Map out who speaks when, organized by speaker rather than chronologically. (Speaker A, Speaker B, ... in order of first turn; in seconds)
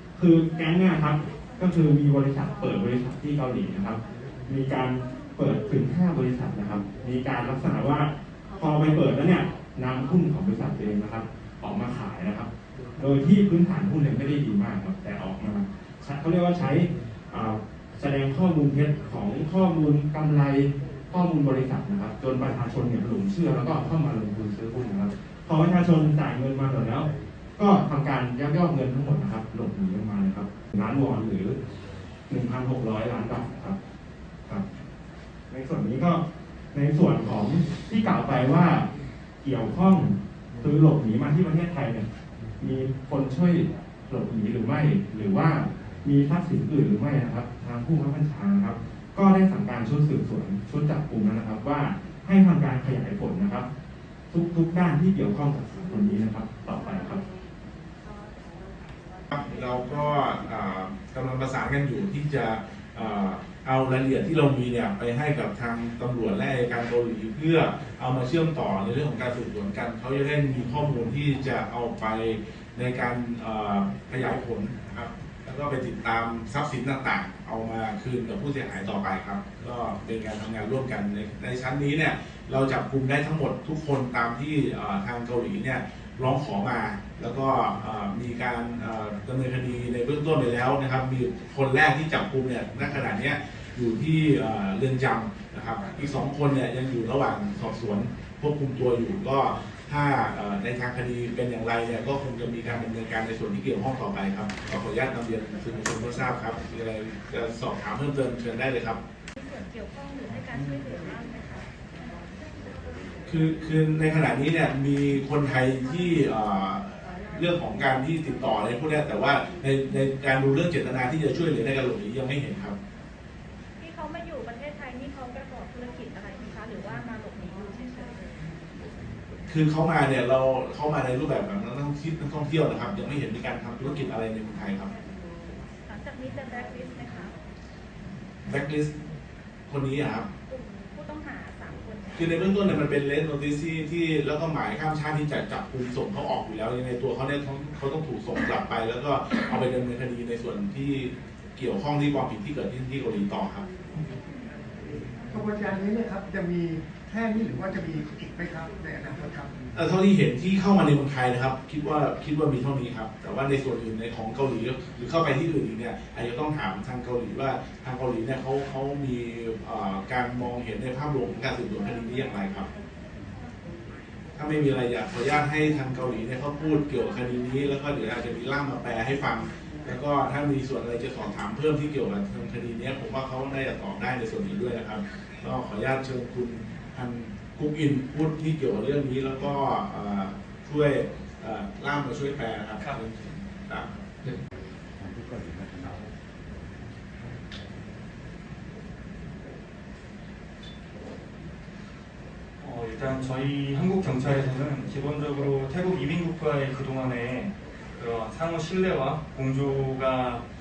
Speaker A: 0.1-31.6, 32.3-33.8, 35.5-36.2, 36.7-38.9, 39.4-42.1, 42.6-53.7, 54.3-57.2
Speaker B: 59.3-109.0, 113.3-122.8, 129.5-134.9, 138.4-138.9, 139.7-140.2, 142.2-153.7, 159.7-172.7, 174.3-193.9
Speaker C: 109.3-112.2, 123.8-128.3, 135.8-137.3, 140.5-142.9
Speaker D: 154.9-159.6
Speaker E: 202.6-210.4